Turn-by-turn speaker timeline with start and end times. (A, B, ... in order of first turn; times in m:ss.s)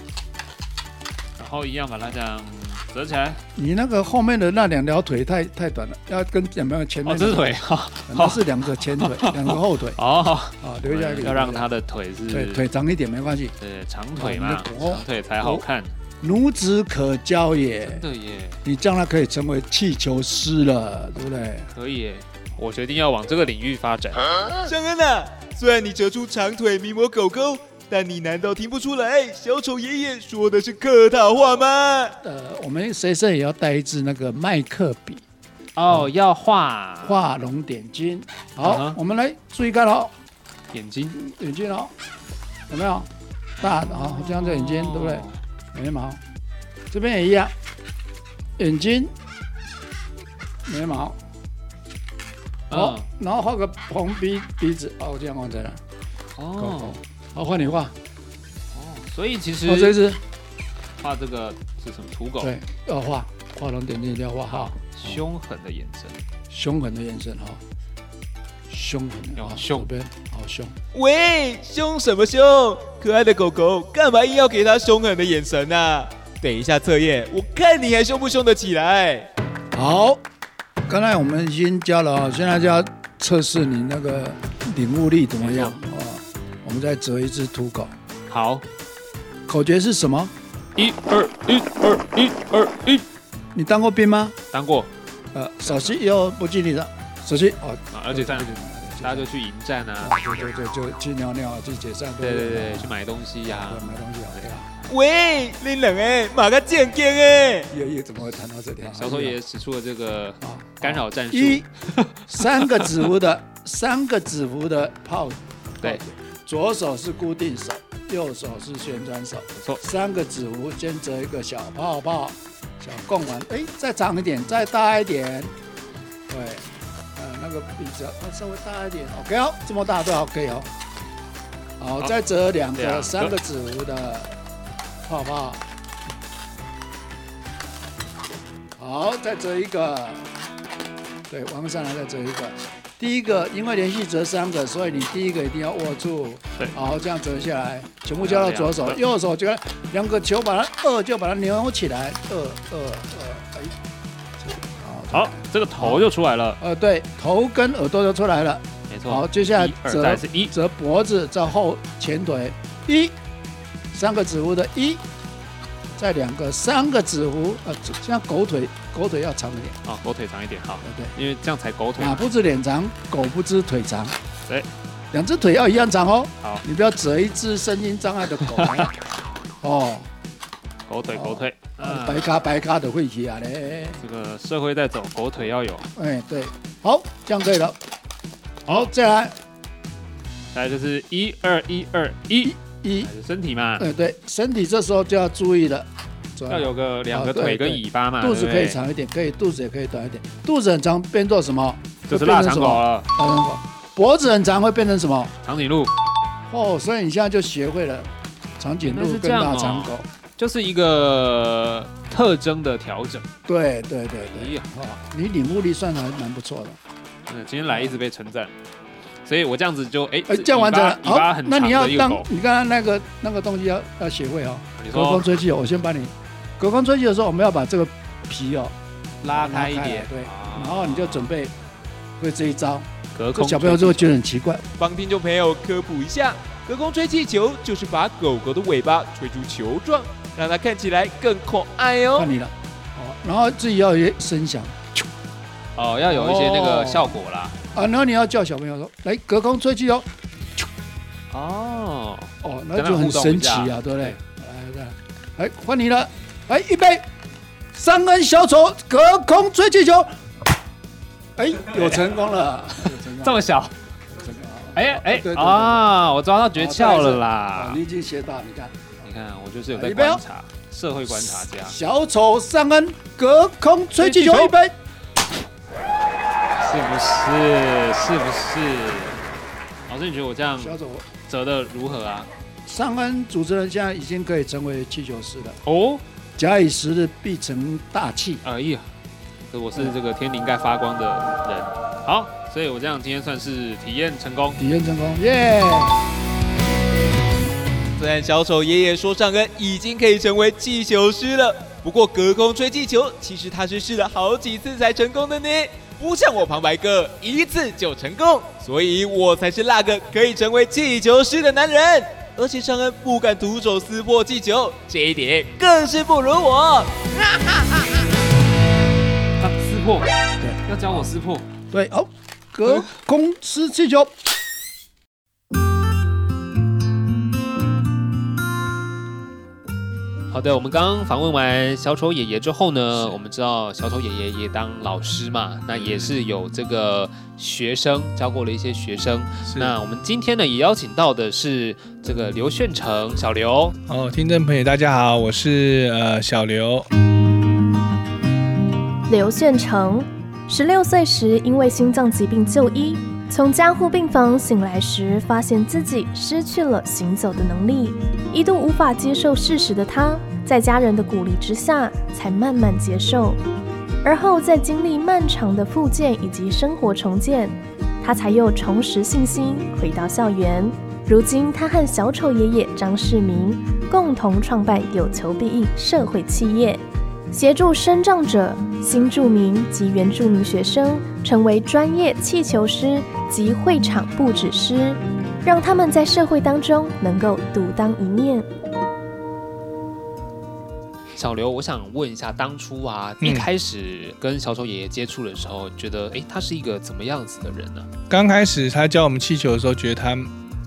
0:01.4-0:03.4 A
0:03.6-0:07.6 B
0:07.0-0:12.7 A
0:08.1-0:10.0 B
0:10.6-0:11.7 B
0:12.3-0:13.5 B
0:13.6-0:15.9 A
0:14.2-0:15.6 B
0:16.2-0:18.0 B
0:17.8-0:18.6 A
0:18.6-0:21.7 B
0:21.7-0:24.3 A
0:24.7-0:32.2 C
0:32.2-0:35.2 B
0:35.8-0:37.2 A
0:37.0-0:40.1 B
0:38.6-0:39.0 A
0:40.7-0:41.2 A
0:41.1-0:41.9 B
0:42.7-0:43.1 B
0:43.6-0:46.2 B
0:43.8-0:45.4 A
0:46.9-0:47.5 B
0:48.6-0:49.1 B
0:50.7-0:51.2 B
0:52.7-0:53.1 A
0:52.7-0:55.8 B
0:56.4-0:57.0 A
0:56.6-0:57.9 B
0:58.7-1:00.0 A
0:59.6-1:00.2 B
1:01.0-1:02.5 A
1:02.4-1:05.2 B
1:04.8-1:06.2 A
1:06.5-1:07.6 B
1:08.7-1:10.8 B
1:09.4-1:09.9 A
1:10.9-1:19.3 C
1:19.7-1:20.2 B
1:20.9-1:27.9 B
1:25.4-1:25.8 A
1:28.3-1:28.6 A
1:29.5-1:30.3 B
1:30.8-1:33.0 A
1:33.5-1:34.4 B
1:34.5-1:34.9 A
1:35.3-1:39.3 B
1:35.6-1:36.0 A
1:37.9-1:40.2 A
1:40.0-1:42.9 B
1:42.2-1:44.0 A
1:43.6-1:44.7 B
1:44.9-1:47.7 C
1:47.7-1:49.4 B
1:48.9-1:53.0 A
1:50.4-1:51.7 B
1:52.3-2:05.5 B
2:06.3-2:10.7 B
2:11.8-2:14.4 B
2:12.8-2:13.4 A
2:15.0-2:15.6 B
2:18.8-2:20.2 B
2:21.3-2:33.7 B
2:28.2-2:29.0 A
2:34.6-2:36.1 B
2:35.1-2:36.6 A
2:36.6-2:43.2 B
2:38.9-2:40.5 A
2:43.9-2:45.0 B
2:46.0-2:49.8 B
2:49.8-2:52.2 A
2:50.8-2:51.1 B
2:52.0-2:54.2 B
2:55.1-2:58.9 B
2:59.6-3:00.1 B
3:00.9-3:02.3 A
3:01.1-3:04.0 B
3:04.0-3:05.9 A
3:06.0-3:07.8 B
3:08.7-3:09.4 B
3:10.5-3:13.9 A
3:12.4-3:13.1 B
3:13.8-3:25.3 B
3:16.5-3:18.8 A
3:22.1-3:23.1 A
3:25.4-3:25.9 A
3:26.5-3:30.1 B
3:28.8-3:33.3 A
3:33.5-3:36.8 B
3:34.3-3:34.7 A
3:37.3-3:38.5 A
3:39.2-3:42.3 A
3:40.3-3:48.7 B
3:44.8-3:45.3 A
3:49.2-3:51.3 A
3:49.3-3:51.5 B
3:52.2-3:54.6 B
3:53.1-3:54.2 A
3:54.8-4:02.3 C
4:02.2-4:05.1 B
4:05.8-4:07.6 A
4:06.0-4:07.1 B
4:07.7-4:10.7 B
4:11.3-4:14.2 A
4:12.4-4:17.1 B
4:17.7-4:20.1 B
4:21.4-4:23.5 B
4:21.7-4:22.2 A
4:23.2-4:23.7 A
4:24.2-4:26.0 B
4:24.7-4:27.8 A
4:26.6-4:28.8 B
4:29.0-4:31.8 A
4:29.7-4:30.2 B
4:31.1-4:34.7 B
4:34.0-4:34.6 A
4:36.6-4:39.2 A
4:39.9-4:42.3 A
4:40.6-4:41.1 B
4:42.7-4:45.6 B
4:45.6-4:46.0 A
4:46.4-4:48.4 B
4:48.4-4:48.9 A
4:49.5-4:54.6 A
4:54.6-4:56.0 B
4:58.0-5:17.9 C
5:19.4-5:20.1 A
5:20.6-5:21.5 A
5:21.7-5:24.1 B
5:30.3-5:43.8 A
5:35.7-5:36.2 D
5:39.4-5:39.8 D
5:43.9-5:46.9 D
5:49.1-6:03.4 E
6:04.0-6:28.5 E
6:31.2-6:37.9 A
6:33.2-6:33.5 D
6:38.1-6:40.3 D